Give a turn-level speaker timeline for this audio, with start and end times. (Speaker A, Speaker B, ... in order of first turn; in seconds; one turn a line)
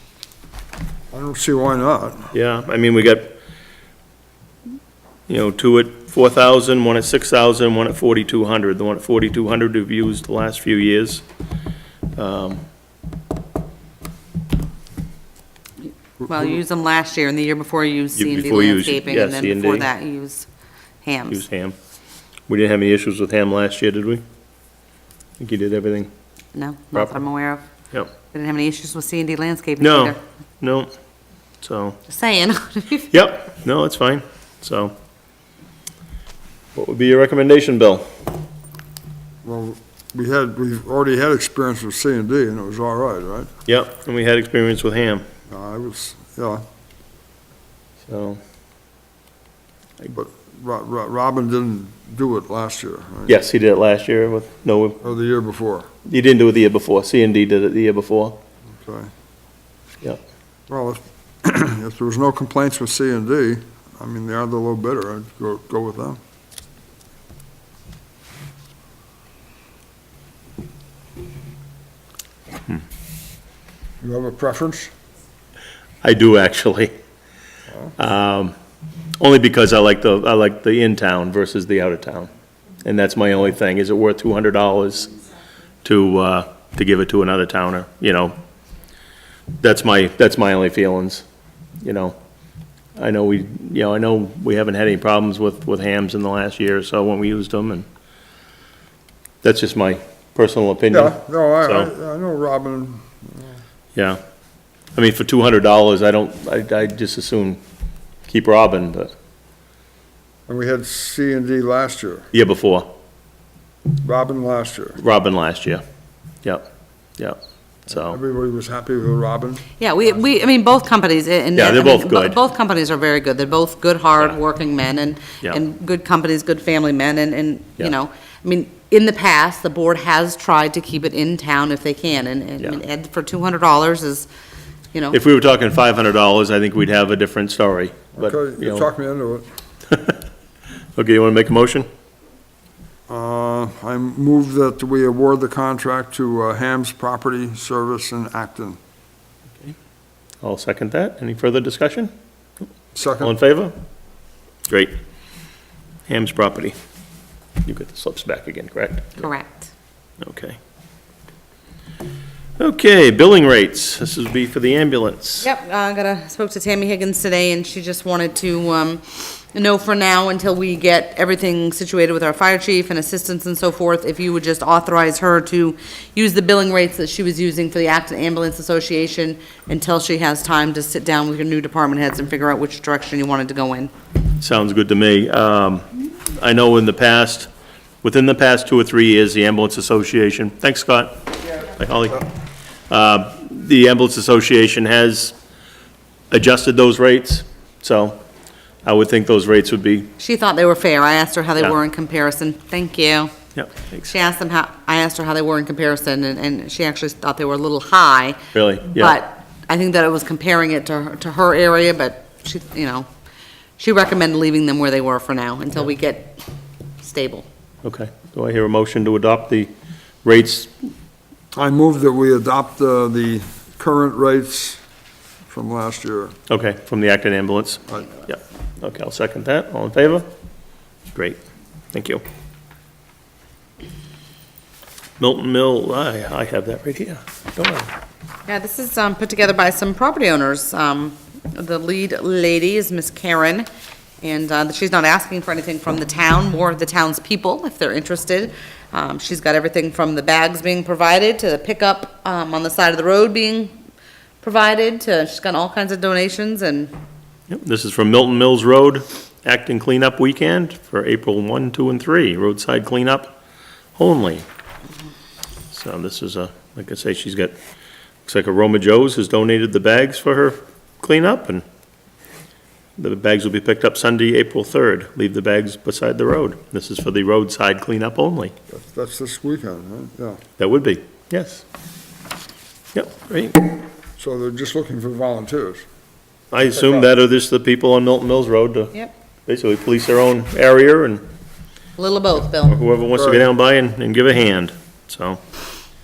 Speaker A: 1.1-2.3
Speaker B: 2.3-3.3
Speaker B: 5.3-11.2
Speaker B: 12.2-12.6
Speaker C: 16.2-20.5
Speaker B: 18.2-19.9
Speaker C: 21.0-21.4
Speaker B: 21.3-21.8
Speaker B: 22.5-24.2
Speaker B: 25.4-26.1
Speaker C: 26.5-27.6
Speaker B: 26.9-27.2
Speaker C: 28.3-30.2
Speaker B: 29.8-30.9
Speaker B: 31.6-32.0
Speaker C: 32.1-33.1
Speaker B: 33.1-35.0
Speaker B: 36.8-38.1
Speaker A: 39.4-43.5
Speaker B: 43.7-45.2
Speaker A: 45.5-46.6
Speaker B: 48.0-48.4
Speaker A: 50.1-53.4
Speaker B: 53.3-55.0
Speaker A: 55.0-55.9
Speaker B: 56.1-58.4
Speaker A: 58.8-59.1
Speaker A: 60.7-66.2
Speaker A: 74.0-74.9
Speaker B: 76.0-76.9
Speaker B: 78.0-78.5
Speaker B: 79.2-82.3
Speaker B: 82.8-85.1
Speaker B: 85.8-88.3
Speaker B: 89.6-91.2
Speaker B: 91.8-92.2
Speaker B: 93.0-97.9
Speaker B: 99.4-101.9
Speaker A: 100.9-103.5
Speaker B: 104.0-104.2
Speaker B: 105.0-107.6
Speaker B: 108.3-109.1
Speaker A: 110.5-112.3
Speaker B: 112.3-112.9
Speaker A: 114.0-115.0
Speaker B: 115.0-115.8
Speaker B: 117.2-118.2
Speaker A: 118.0-119.7
Speaker C: 119.8-134.3
Speaker B: 121.6-122.4
Speaker B: 135.1-138.9
Speaker A: 138.2-139.5
Speaker B: 139.9-140.2
Speaker B: 141.0-141.9
Speaker A: 143.1-148.8
Speaker B: 150.4-152.1
Speaker A: 152.9-153.3
Speaker B: 153.2-153.7
Speaker B: 154.7-155.0
Speaker B: 156.1-156.8
Speaker B: 157.6-159.2
Speaker C: 159.2-159.7
Speaker B: 160.2-160.6
Speaker B: 162.6-165.5
Speaker C: 165.4-183.9
Speaker B: 184.4-187.5
Speaker B: 188.0-192.3
Speaker B: 192.9-195.3
Speaker B: 196.3-198.2
Speaker B: 198.8-200.1
Speaker C: 200.2-203.3
Speaker B: 203.6-204.1
Speaker C: 204.1-213.1
Speaker B: 208.5-209.2
Speaker C: 213.8-216.4
Speaker C: 217.0-217.5
Speaker B: 217.8-219.7
Speaker B: 220.2-220.9
Speaker A: 221.5-224.8
Speaker A: 225.5-226.3
Speaker B: 226.5-230.3
Speaker B: 231.1-231.4
Speaker B: 231.9-232.2
Speaker B: 235.2-237.9
Speaker C: 238.5-243.7
Speaker C: 244.2-253.7
Speaker C: 254.4-256.9
Speaker B: 257.5-263.4
Speaker B: 264.0-264.4
Speaker B: 265.7-267.6
Speaker B: 268.3-271.6
Speaker B: 273.0-278.5
Speaker A: 278.7-280.4
Speaker B: 280.6-281.6
Speaker B: 282.9-283.6
Speaker A: 284.2-285.8
Speaker B: 286.5-291.2
Speaker C: 292.0-292.8
Speaker B: 292.6-295.4
Speaker A: 293.1-293.5